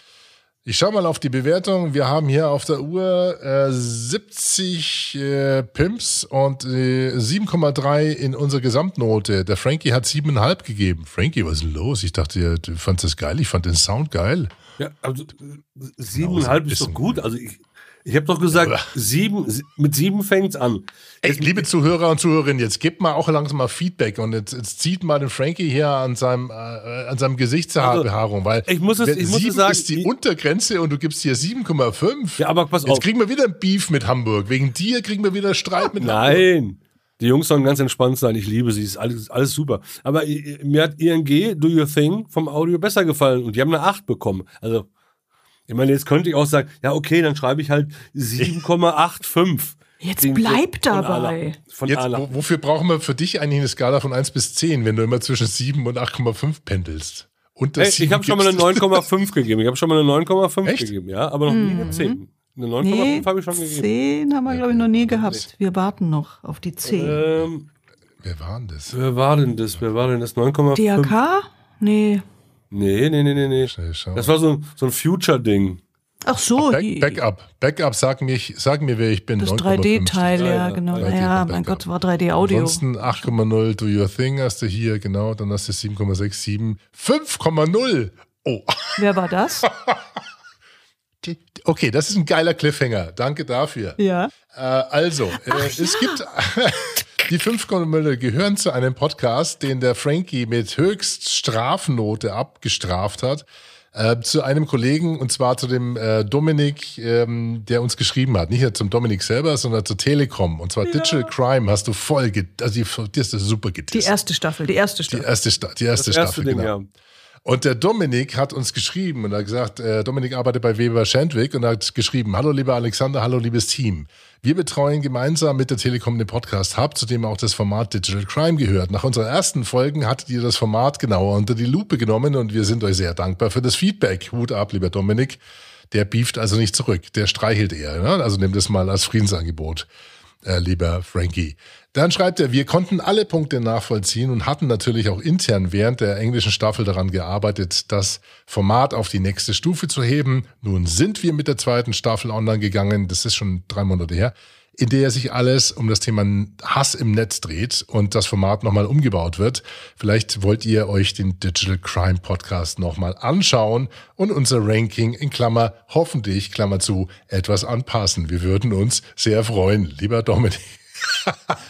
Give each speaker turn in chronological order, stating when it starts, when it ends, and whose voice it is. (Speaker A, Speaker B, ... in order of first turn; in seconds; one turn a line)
Speaker A: 0.6-14.5
Speaker B: 14.8-21.6
Speaker A: 16.1-17.2
Speaker A: 18.5-18.9
Speaker A: 21.2-36.5
Speaker B: 27.8-28.1
Speaker B: 28.7-30.1
Speaker B: 32.4-33.0
Speaker B: 36.0-44.9
Speaker B: 45.7-52.3
Speaker C: 50.0-51.6
Speaker A: 51.9-59.0
Speaker B: 57.8-63.9
Speaker A: 60.6-60.9
Speaker C: 61.5-62.2
Speaker C: 62.8-67.2
Speaker A: 64.5-65.4
Speaker B: 66.8-67.7
Speaker A: 68.2-69.0
Speaker B: 68.9-71.1
Speaker C: 70.7-72.2
Speaker B: 72.7-75.8
Speaker A: 73.7-74.3
Speaker C: 76.2-77.2
Speaker A: 76.6-81.8
Speaker C: 79.4-82.8
Speaker B: 80.4-81.1
Speaker A: 82.4-89.0
Speaker C: 89.0-89.7
Speaker A: 89.6-90.0
Speaker A: 91.2-94.0
Speaker C: 94.0-94.3
Speaker A: 94.5-114.1
Speaker C: 95.4-96.2
Speaker C: 110.8-111.3
Speaker C: 113.9-115.2
Speaker A: 115.1-116.7
Speaker B: 116.0-116.9
Speaker A: 117.4-139.9
Speaker A: 140.4-171.6